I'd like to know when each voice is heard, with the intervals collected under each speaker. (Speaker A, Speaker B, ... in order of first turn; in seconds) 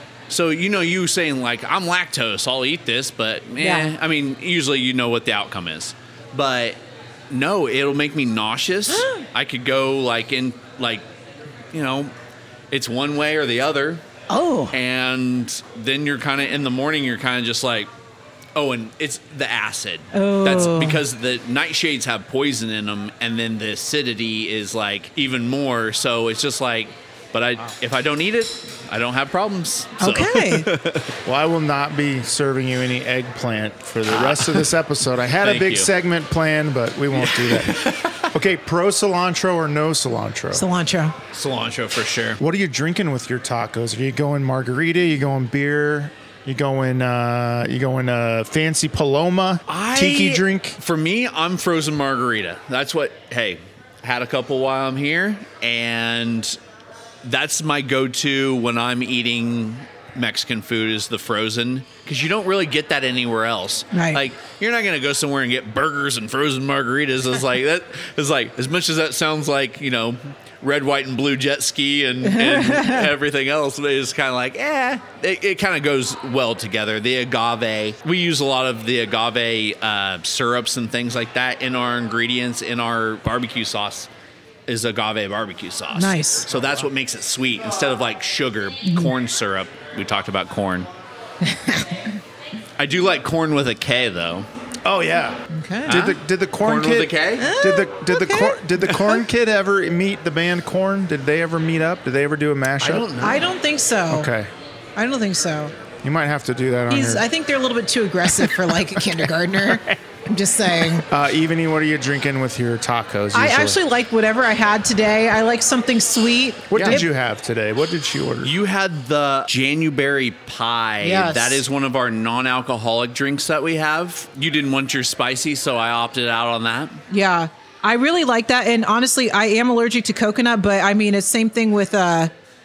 Speaker A: 0.3-6.8, 7.3-11.0, 11.7-12.1, 12.7-14.0, 14.7-17.9, 18.6-31.1, 34.1-34.7, 35.4-35.9, 37.1-38.3, 41.3-42.4, 49.7-56.6, 57.2-84.1, 84.7-90.9, 92.8-94.5, 95.9-97.5, 102.8-103.5, 116.7-117.0, 118.4-127.0
Speaker B: 3.6-3.9, 8.9-9.2, 14.3-14.8, 20.1-21.0, 30.0-30.7, 40.5-41.1, 63.9-64.2, 72.2-73.1, 85.9-86.5, 88.8-89.1, 91.4-92.1, 95.5-96.0, 97.4-99.0, 103.2-104.3, 105.0-105.7, 106.9-111.0, 113.3-117.0, 121.0-121.6, 127.1-132.3
Speaker C: 31.2-40.6, 42.4-50.8, 94.8-103.1, 104.1-104.5, 106.0-107.2, 108.4-110.0, 111.1-113.8, 116.7-118.5